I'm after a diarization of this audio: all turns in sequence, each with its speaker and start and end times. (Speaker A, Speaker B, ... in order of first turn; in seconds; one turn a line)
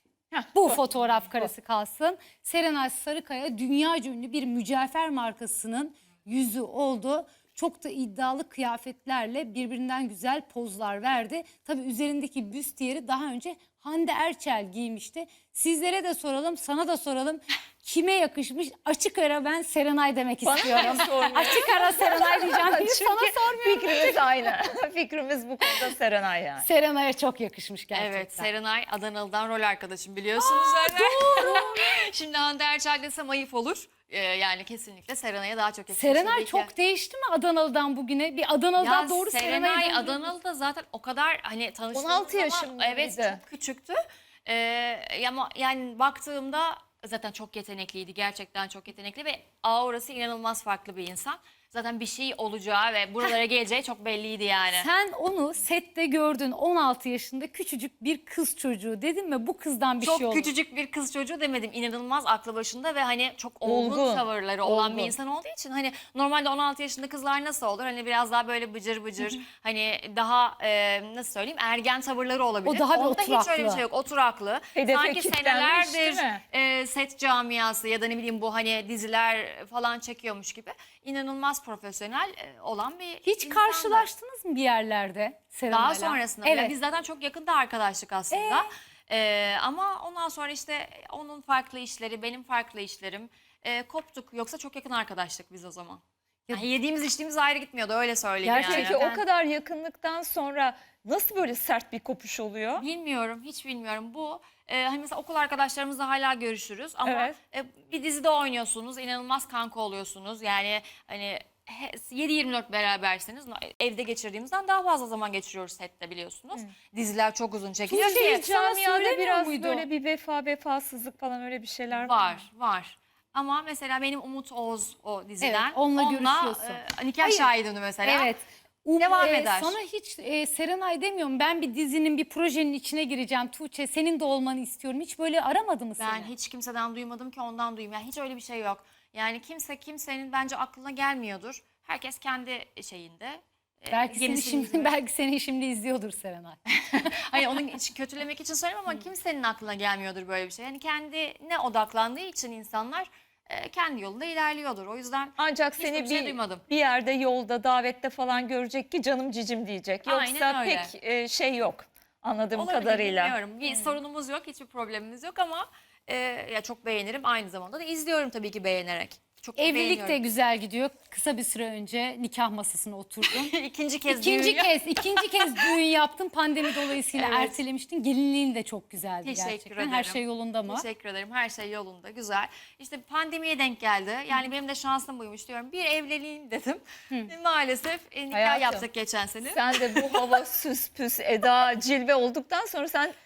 Speaker A: 0.5-24.2
Speaker B: 20.4-26.7
Speaker A: 26.6-28.5
Speaker C: 27.9-36.7
Speaker A: 30.4-31.8
Speaker A: 35.9-40.3
Speaker C: 38.8-54.9
Speaker B: 41.9-43.4
Speaker A: 54.7-60.5
Speaker C: 60.0-84.1
Speaker B: 63.6-65.1
Speaker A: 72.7-73.8
Speaker B: 74.8-76.4
Speaker A: 83.2-86.8
Speaker C: 85.7-99.0
Speaker A: 88.3-88.7
Speaker A: 98.4-99.2
Speaker B: 98.5-102.8
Speaker C: 102.8-118.5
Speaker B: 107.0-107.3
Speaker A: 117.9-119.9
Speaker B: 118.1-122.3
Speaker C: 121.9-128.3
Speaker A: 125.4-127.5
Speaker A: 128.0-136.3
Speaker C: 129.0-129.8
Speaker C: 136.0-145.0
Speaker A: 143.9-147.4
Speaker C: 146.7-156.6
Speaker B: 155.4-163.4
Speaker C: 160.1-160.9
Speaker C: 162.6-170.3
Speaker A: 169.6-173.5
Speaker C: 173.2-175.8
Speaker A: 174.1-180.8
Speaker C: 176.9-177.5
Speaker C: 179.2-190.2
Speaker B: 188.3-188.7
Speaker A: 188.4-188.8
Speaker B: 189.5-193.2